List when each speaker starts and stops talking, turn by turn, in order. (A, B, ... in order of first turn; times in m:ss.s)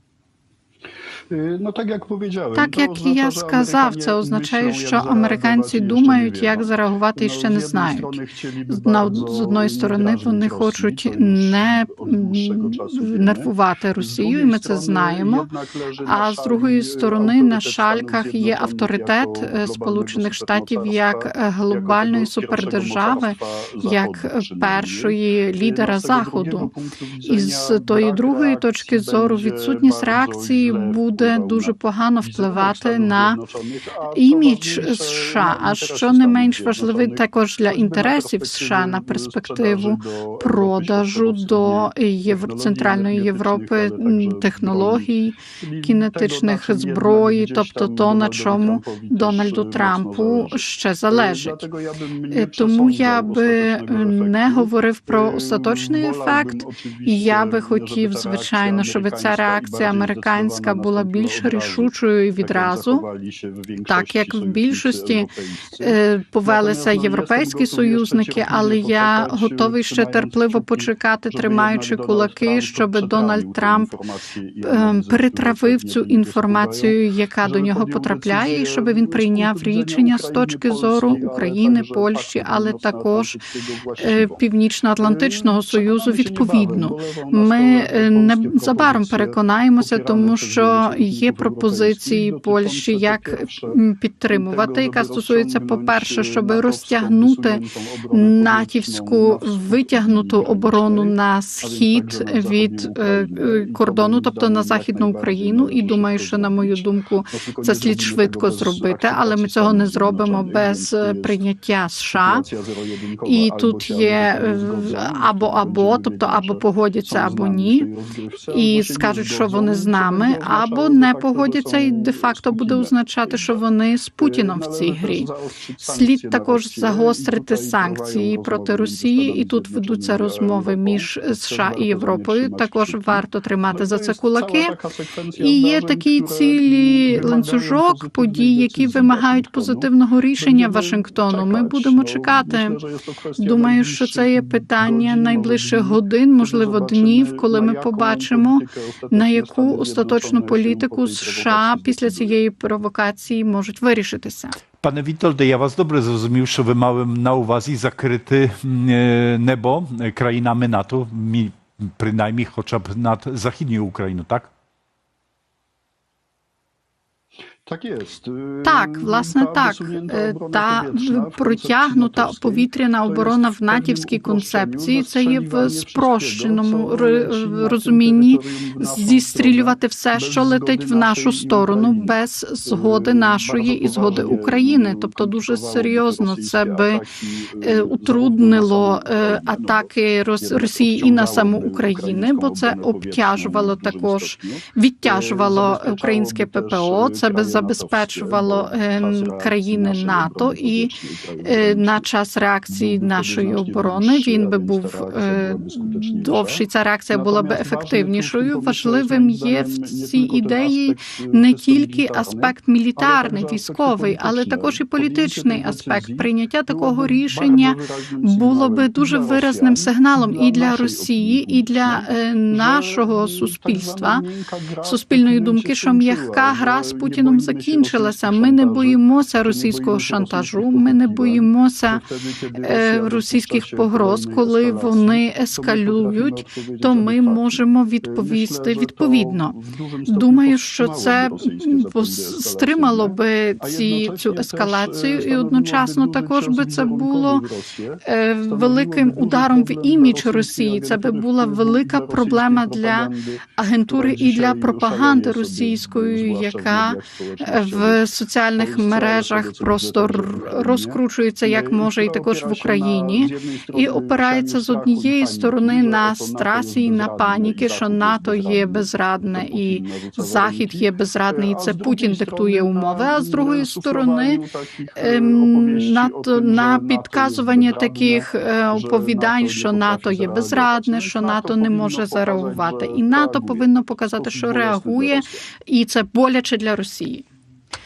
0:01.3-1:24.4 A
0:02.6-0:08.2 B
0:08.7-0:15.5 B
0:16.1-0:26.7 B
0:27.3-0:33.4 B
0:34.2-0:51.6 B
0:52.3-0:56.6 B
0:57.1-1:03.0 B
1:03.9-1:05.3 B
1:05.8-1:13.9 B
1:14.7-1:23.3 B
1:24.0-1:37.6 B
1:25.0-1:51.4 A
1:38.1-1:52.4 B
1:52.2-2:03.6 A
1:53.3-1:57.9 B
1:58.5-2:05.3 B
2:04.2-2:32.4 A
2:05.9-2:14.7 B
2:15.4-2:22.8 B
2:23.4-2:34.6 B
2:34.8-2:44.5 C
2:47.7-3:22.1 A
2:48.7-3:07.0 B
3:07.6-3:20.9 B
3:21.4-3:44.2 B
3:22.7-4:18.1 A
3:44.9-3:52.0 B
3:52.6-3:59.5 B
4:00.1-4:07.4 B
4:08.1-4:34.4 B
4:18.6-4:45.5 A
4:35.0-4:47.2 B